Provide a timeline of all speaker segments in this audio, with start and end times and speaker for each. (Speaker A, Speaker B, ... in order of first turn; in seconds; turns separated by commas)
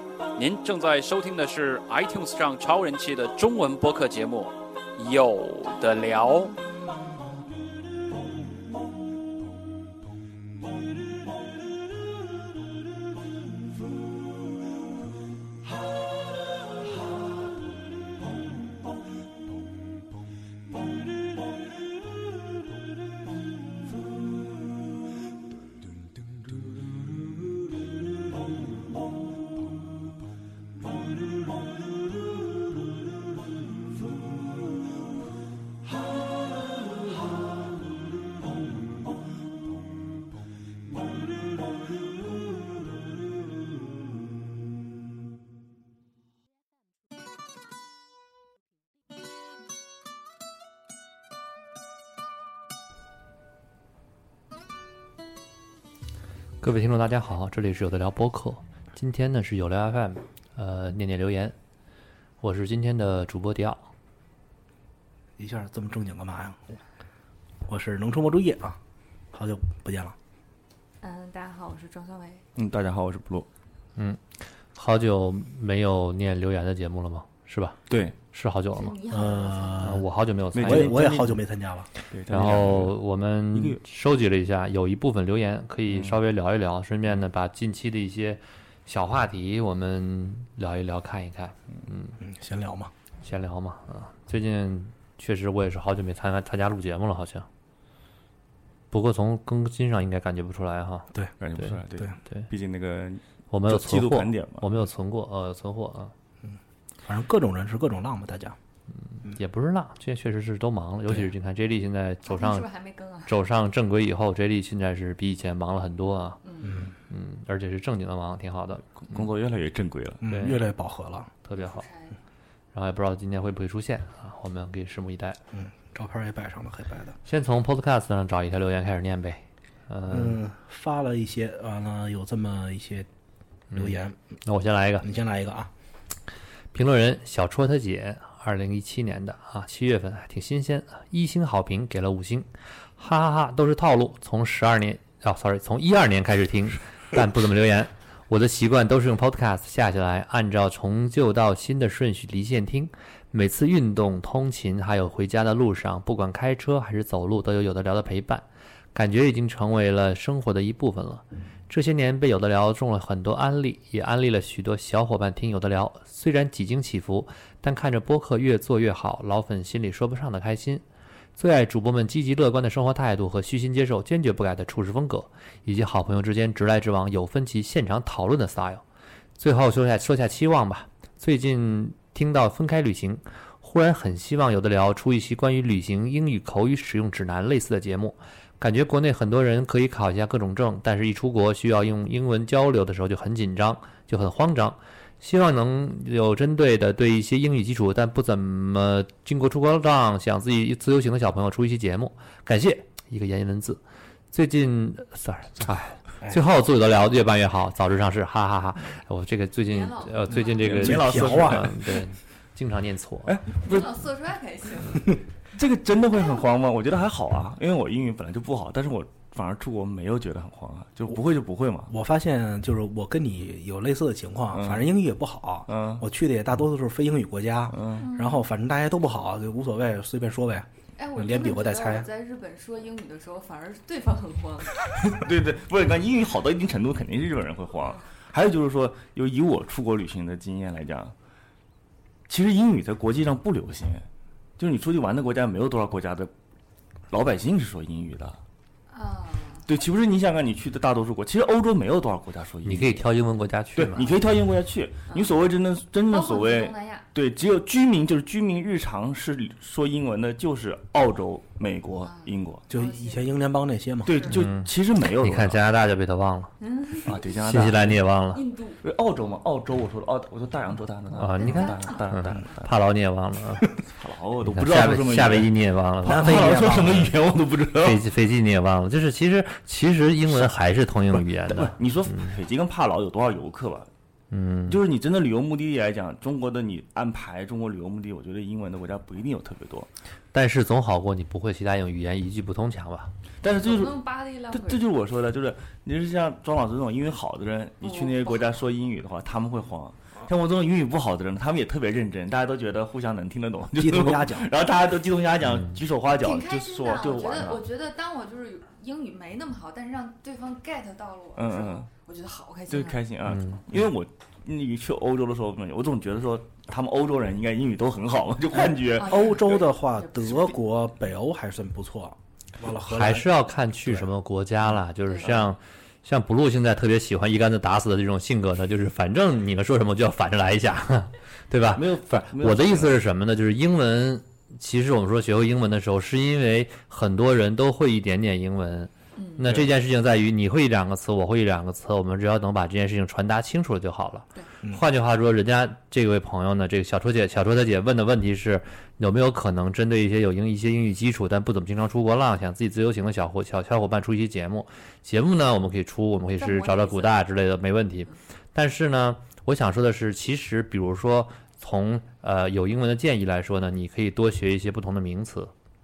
Speaker A: 0.4-6.5, Speaker B: 56.6-61.5, Speaker B: 62.4-63.9, Speaker C: 65.4-66.8, Speaker C: 67.7-68.8, Speaker C: 69.3-70.2, Speaker D: 71.0-72.4, Speaker E: 72.6-73.5, Speaker B: 74.8-77.8, Speaker E: 77.9-78.2, Speaker B: 78.3-79.0, Speaker D: 78.8-79.9, Speaker C: 79.1-80.1, Speaker B: 79.8-81.0, Speaker E: 80.5-81.4, Speaker C: 80.6-81.9, Speaker E: 82.1-83.0, Speaker B: 82.3-92.2, Speaker E: 83.5-83.8, Speaker E: 85.9-86.2, Speaker C: 92.2-92.9, Speaker B: 93.2-97.5, Speaker B: 98.9-101.8, Speaker E: 101.4-104.7, Speaker B: 103.5-106.1, Speaker C: 106.4-108.6, Speaker B: 109.1-112.7, Speaker D: 112.3-113.3, Speaker B: 113.3-116.4, Speaker D: 116.4-116.8, Speaker C: 116.6-117.0, Speaker B: 117.1-119.2, Speaker E: 119.0-120.2, Speaker C: 120.2-121.3, Speaker B: 120.3-120.6, Speaker B: 121.4-121.9, Speaker D: 121.6-122.2, Speaker B: 122.7-125.4, Speaker C: 125.5-127.2, Speaker B: 127.3-130.4, Speaker C: 130.1-133.1, Speaker B: 133.7-135.1, Speaker C: 133.7-134.2, Speaker C: 135.0-135.7, Speaker B: 136.7-170.8, Speaker B: 171.4-178.8, Speaker B: 179.4-203.8, Speaker B: 204.3-213.4, Speaker D: 209.7-210.7, Speaker E: 210.6-212.0, Speaker C: 210.7-211.8, Speaker E: 213.3-213.9, Speaker D: 213.6-215.1, Speaker E: 215.5-221.9, Speaker C: 221.9-232.1, Speaker E: 224.5-224.9, Speaker E: 225.7-226.1, Speaker E: 227.7-228.1, Speaker D: 228.0-228.4, Speaker D: 231.0-234.8, Speaker E: 235.0-241.1, Speaker E: 242.3-244.1, Speaker E: 244.6-246.3, Speaker E: 247.1-248.4, Speaker D: 248.9-249.7, Speaker E: 249.7-253.0, Speaker B: 252.7-254.1, Speaker E: 253.8-262.6, Speaker D: 256.1-257.1, Speaker D: 262.0-263.2, Speaker C: 262.7-264.2, Speaker E: 264.1-265.6, Speaker B: 264.3-266.5, Speaker D: 266.6-267.2, Speaker E: 267.1-268.0, Speaker B: 267.4-268.4, Speaker D: 268.3-268.8, Speaker E: 268.8-272.7, Speaker B: 271.1-273.7, Speaker D: 271.4-272.0, Speaker E: 274.0-278.1, Speaker B: 274.4-277.0, Speaker C: 276.0-277.1, Speaker B: 277.8-282.4, Speaker E: 280.3-280.6, Speaker E: 281.1-283.9, Speaker B: 284.3-284.8, Speaker E: 284.7-289.9, Speaker B: 290.3-293.1, Speaker E: 293.4-294.0, Speaker D: 293.6-294.8, Speaker E: 294.5-307.6, Speaker D: 297.8-298.5, Speaker C: 303.8-304.5, Speaker B: 305.4-305.8, Speaker D: 306.1-313.0, Speaker E: 311.4-311.9, Speaker E: 312.7-319.4, Speaker B: 313.3-313.6, Speaker C: 318.6-324.1, Speaker D: 319.0-320.6, Speaker B: 322.9-365.5, Speaker D: 325.1-325.5, Speaker E: 331.7-333.0, Speaker D: 339.2-339.5, Speaker E: 339.4-339.7, Speaker D: 356.4-357.2